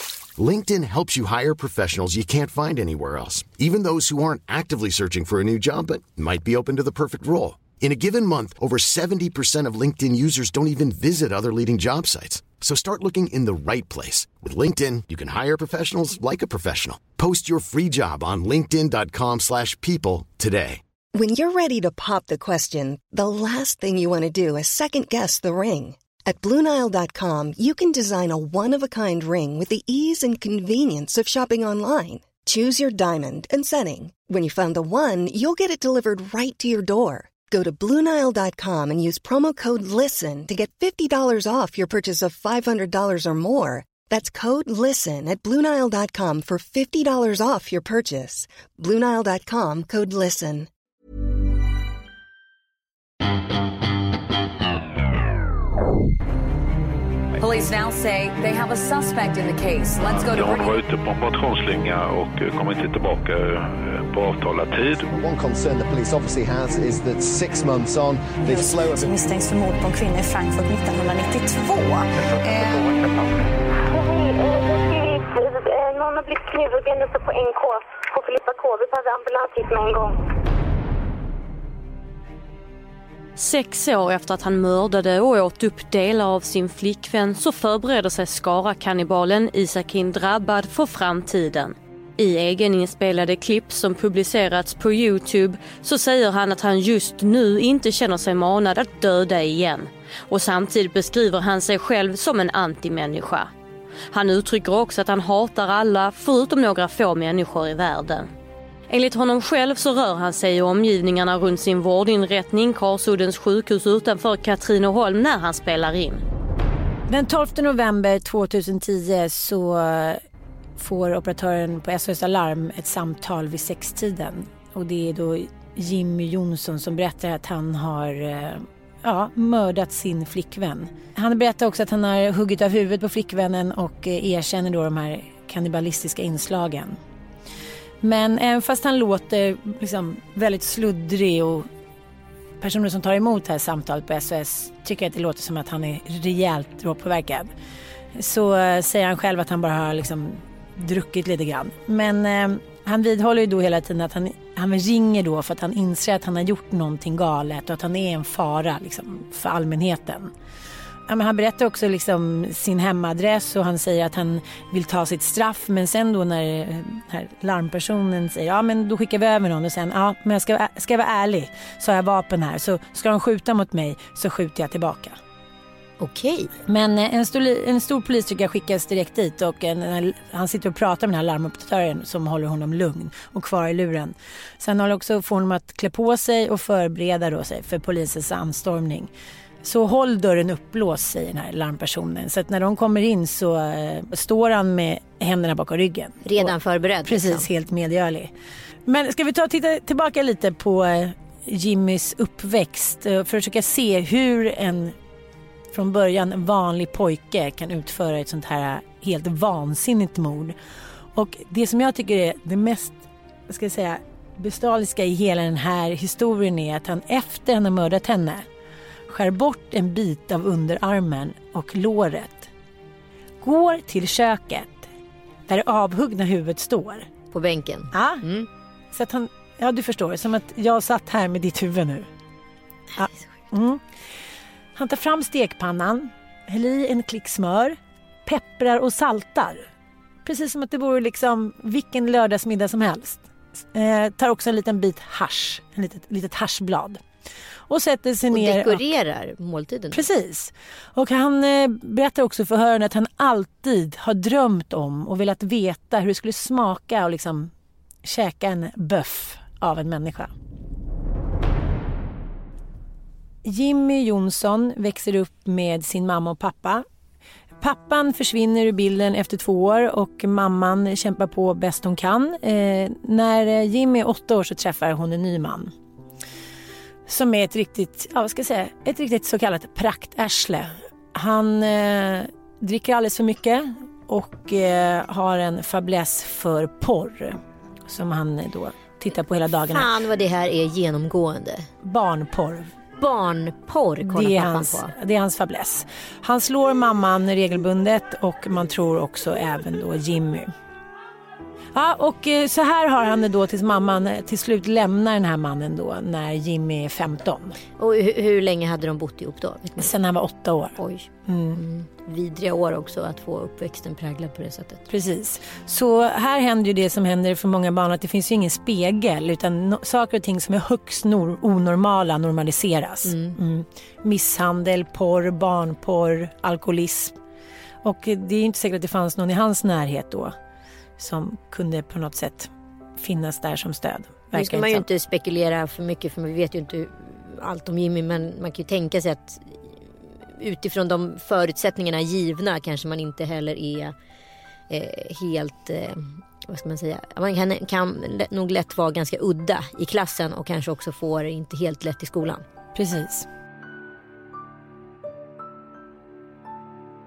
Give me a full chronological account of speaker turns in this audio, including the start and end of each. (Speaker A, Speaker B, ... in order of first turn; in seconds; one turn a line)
Speaker A: 0.4-20.8
Speaker B: 21.1-50.7
Speaker C: 57.4-60.8
Speaker D: 60.0-65.1
Speaker E: 65.1-69.2
Speaker F: 68.4-72.1
Speaker C: 72.4-73.2
Speaker G: 73.8-80.2
Speaker H: 83.4-103.5
Speaker H: 104.1-108.3
Speaker H: 108.9-116.2
Speaker I: 117.1-120.2
Speaker I: 120.8-137.0
Speaker I: 138.0-141.7
Speaker I: 142.6-147.5
Speaker I: 148.1-160.3
Speaker I: 161.1-175.2
Speaker J: 176.0-176.5
Speaker I: 176.7-189.1
Speaker I: 189.6-196.5
Speaker J: 196.2-197.5
Speaker I: 197.1-198.3
Speaker I: 198.9-205.0
Speaker I: 205.7-210.6
Speaker I: 211.1-218.5
Speaker I: 219.1-222.5
Speaker I: 223.4-224.9
Speaker I: 225.5-227.1
Speaker J: 227.3-228.5
Speaker I: 227.9-228.2
Speaker I: 228.9-232.1
Speaker J: 232.9-233.2
Speaker I: 233.0-233.9
Speaker I: 234.8-239.7
Speaker I: 240.2-247.0
Speaker I: 247.7-248.8
Speaker J: 248.3-250.1
Speaker I: 249.9-257.5
Speaker I: 258.0-260.3
Speaker I: 263.4-266.9
Speaker I: 267.6-275.7
Speaker I: 277.1-289.9
Speaker J: 289.7-291.7
Speaker I: 291.8-292.7
Speaker J: 293.0-294.9
Speaker I: 294.1-300.5
Speaker I: 301.7-307.6
Speaker J: 307.8-309.9
Speaker I: 309.8-311.6
Speaker J: 310.8-314.9
Speaker I: 314.9-327.2
Speaker J: 323.1-323.4
Speaker I: 327.8-330.4
Speaker I: 331.0-334.9
Speaker J: 334.3-343.9
Speaker J: 344.7-352.4
Speaker I: 352.8-353.3